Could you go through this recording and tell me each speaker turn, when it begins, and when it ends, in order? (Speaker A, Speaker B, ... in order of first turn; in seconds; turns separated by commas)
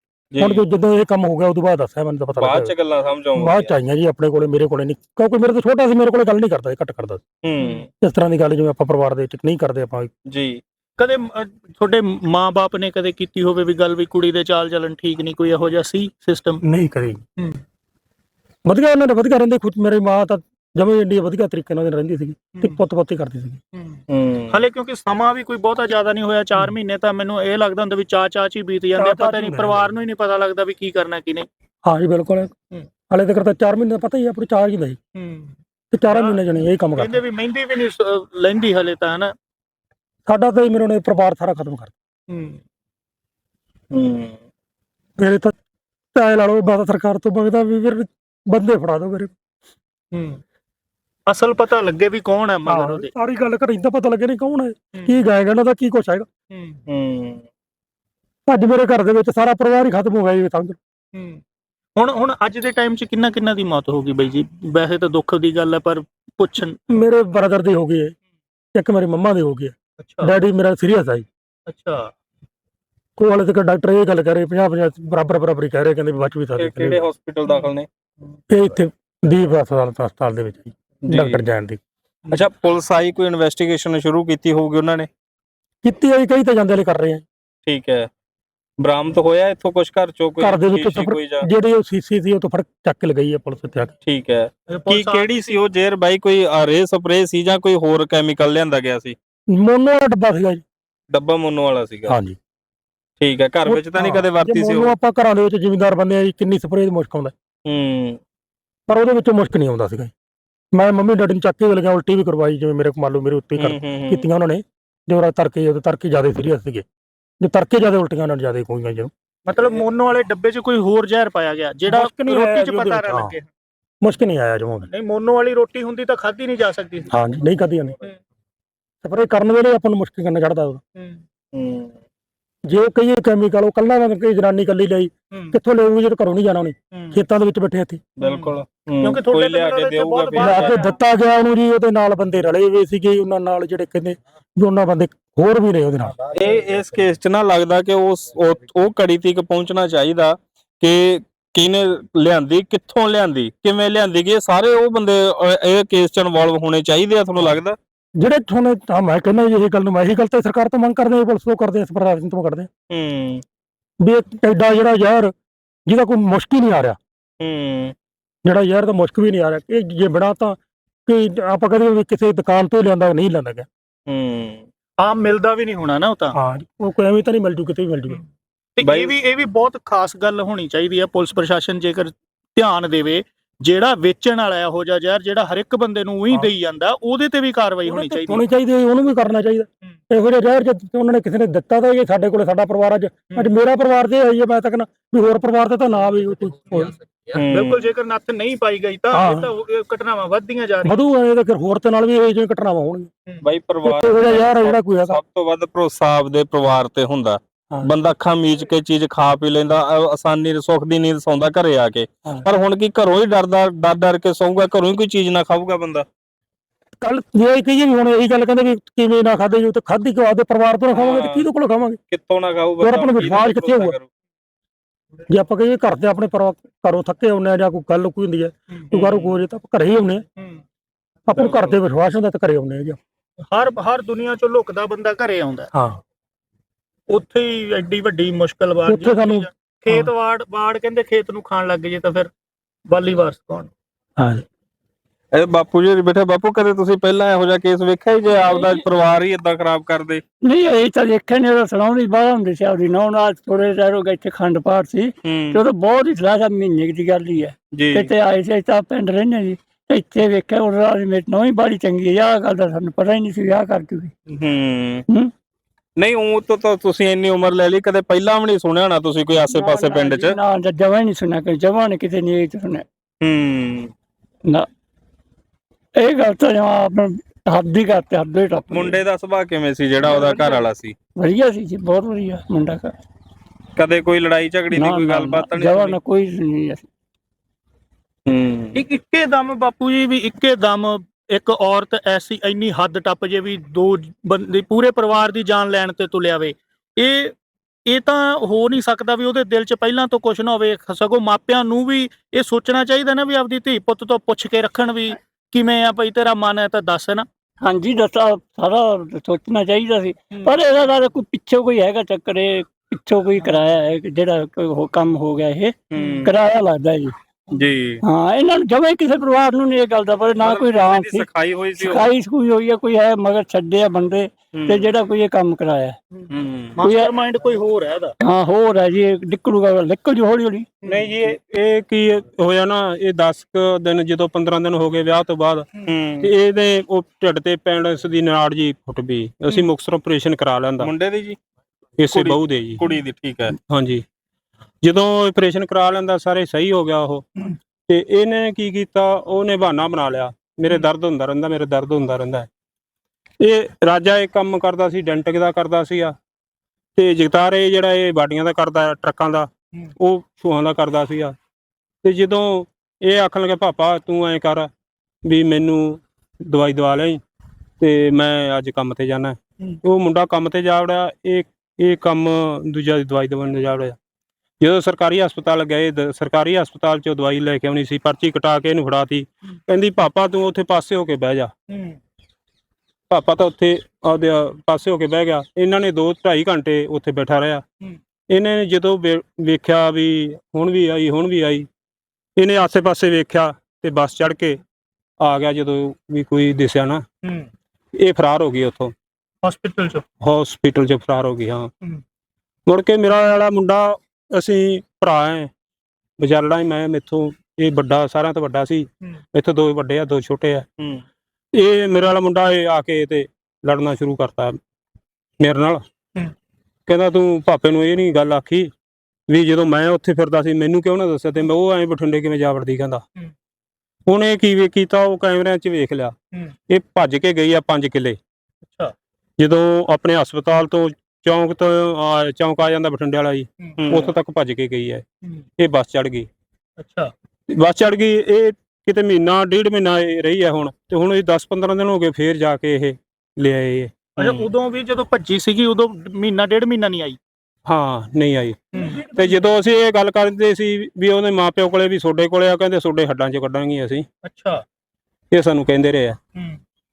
Speaker A: 0.3-0.6, Speaker B: 0.4-2.7, Speaker A: 2.4-3.7, Speaker B: 3.4-7.2, Speaker A: 7.4-7.9, Speaker C: 7.6-7.8, Speaker B: 8.0-10.1, Speaker A: 10.3-10.6, Speaker C: 11.0-16.6, Speaker B: 16.6-17.2, Speaker B: 18.7-23.6, Speaker C: 22.5-22.8, Speaker C: 23.7-31.5, Speaker A: 24.1-24.6, Speaker B: 29.0-29.9, Speaker B: 31.9-32.5, Speaker B: 33.1-35.0, Speaker C: 35.1-36.4, Speaker B: 35.9-37.2, Speaker C: 36.9-39.3, Speaker B: 40.3-41.9, Speaker C: 42.3-42.6, Speaker A: 43.9-44.4, Speaker B: 45.2-45.6, Speaker B: 46.1-49.3, Speaker C: 50.1-50.4, Speaker C: 51.3-53.1, Speaker B: 52.7-56.3, Speaker C: 54.9-55.2, Speaker C: 56.5-56.8, Speaker A: 56.9-57.4, Speaker B: 58.5-60.8, Speaker C: 61.1-61.4, Speaker C: 62.0-66.8, Speaker B: 66.9-68.2, Speaker B: 68.8-71.2, Speaker C: 70.0-70.3, Speaker C: 71.7-72.1, Speaker B: 73.2-77.0, Speaker A: 76.6-77.9, Speaker B: 78.5-81.8, Speaker A: 81.0-81.4, Speaker A: 82.3-85.1, Speaker B: 85.8-87.2, Speaker A: 87.7-88.1, Speaker A: 88.8-91.5, Speaker B: 90.4-93.9, Speaker A: 94.0-99.2, Speaker C: 94.7-95.3, Speaker B: 99.5-100.6, Speaker A: 101.1-102.1, Speaker B: 102.1-102.4, Speaker A: 103.2-104.9, Speaker B: 103.7-107.3, Speaker A: 107.7-108.2, Speaker B: 108.9-110.1, Speaker B: 110.7-116.8, Speaker A: 113.6-114.3, Speaker B: 117.4-119.1, Speaker C: 119.5-123.5, Speaker B: 121.9-123.3, Speaker B: 124.0-124.9, Speaker C: 124.9-127.1, Speaker B: 127.1-128.0, Speaker B: 129.0-130.8, Speaker C: 130.9-131.2, Speaker A: 131.5-131.9, Speaker B: 132.7-138.0, Speaker C: 135.3-135.6, Speaker C: 136.9-137.2, Speaker A: 138.2-140.9, Speaker C: 138.2-138.5, Speaker C: 139.0-140.8, Speaker B: 140.4-146.2, Speaker A: 146.3-157.8, Speaker B: 158.2-162.7, Speaker A: 162.9-163.4, Speaker B: 164.0-165.3, Speaker B: 165.9-167.0, Speaker A: 167.4-167.9, Speaker B: 168.4-173.7, Speaker A: 174.1-174.7, Speaker C: 175.0-176.3, Speaker B: 176.3-178.2, Speaker C: 178.8-188.4, Speaker A: 178.8-179.1, Speaker B: 187.9-196.9, Speaker A: 197.3-197.9, Speaker C: 197.5-201.0, Speaker B: 199.1-199.5, Speaker B: 200.8-203.1, Speaker A: 203.4-216.1, Speaker B: 203.8-205.2, Speaker B: 217.0-222.0, Speaker A: 220.9-221.5, Speaker A: 222.1-224.1, Speaker B: 222.8-223.9, Speaker B: 225.3-230.2, Speaker C: 228.7-229.0, Speaker A: 229.0-229.3, Speaker C: 230.4-230.6, Speaker B: 231.3-233.0, Speaker A: 231.5-231.7, Speaker C: 233.5-235.7, Speaker B: 235.7-236.0, Speaker C: 237.1-242.3, Speaker B: 238.9-240.1, Speaker C: 242.9-243.7, Speaker B: 244.2-244.4, Speaker A: 245.3-250.2, Speaker D: 248.4-248.8, Speaker D: 250.4-264.1, Speaker A: 255.2-255.6, Speaker A: 257.7-258.1, Speaker A: 264.3-265.0, Speaker A: 266.0-270.4, Speaker D: 269.5-272.8, Speaker A: 273.2-273.9, Speaker D: 276.0-279.0, Speaker A: 278.7-280.9, Speaker D: 280.0-280.6, Speaker D: 281.2-282.9, Speaker A: 283.8-286.0, Speaker D: 284.7-286.8, Speaker A: 288.3-288.8, Speaker C: 288.8-297.3, Speaker C: 297.9-307.3, Speaker D: 307.6-317.1, Speaker A: 315.9-316.3, Speaker A: 317.5-318.0, Speaker D: 318.0-326.0, Speaker A: 320.4-322.1, Speaker A: 324.5-324.9, Speaker A: 326.3-326.8, Speaker D: 326.8-327.1, Speaker C: 326.8-328.1, Speaker D: 328.2-330.7, Speaker E: 330.8-335.7, Speaker A: 335.9-336.3, Speaker E: 336.2-340.9, Speaker A: 340.8-341.4, Speaker E: 342.0-342.8, Speaker A: 342.1-343.5, Speaker E: 343.6-344.0, Speaker E: 344.8-347.3, Speaker E: 347.9-352.5, Speaker E: 353.4-356.1, Speaker E: 357.0-361.3, Speaker E: 362.0-364.7, Speaker E: 365.2-367.2, Speaker E: 367.8-373.9, Speaker E: 374.6-381.5, Speaker C: 381.7-382.0, Speaker E: 383.1-387.6, Speaker E: 388.3-391.7, Speaker E: 392.4-394.6, Speaker E: 395.2-397.0, Speaker E: 398.0-398.9, Speaker C: 399.4-400.0, Speaker E: 400.2-401.7, Speaker E: 402.7-405.5, Speaker E: 406.2-410.7, Speaker E: 411.5-414.6, Speaker E: 415.4-415.8, Speaker E: 416.9-418.7, Speaker E: 419.3-423.0, Speaker E: 424.1-426.1, Speaker E: 426.7-428.2, Speaker C: 428.6-428.9, Speaker E: 429.4-435.0, Speaker C: 433.6-434.1, Speaker A: 433.8-434.1, Speaker E: 435.6-436.3, Speaker C: 436.8-437.1, Speaker E: 437.6-444.1, Speaker C: 444.2-447.2, Speaker A: 444.2-444.5, Speaker E: 447.7-448.6, Speaker C: 448.7-449.4, Speaker E: 449.1-454.1, Speaker C: 454.2-454.6, Speaker E: 455.3-456.2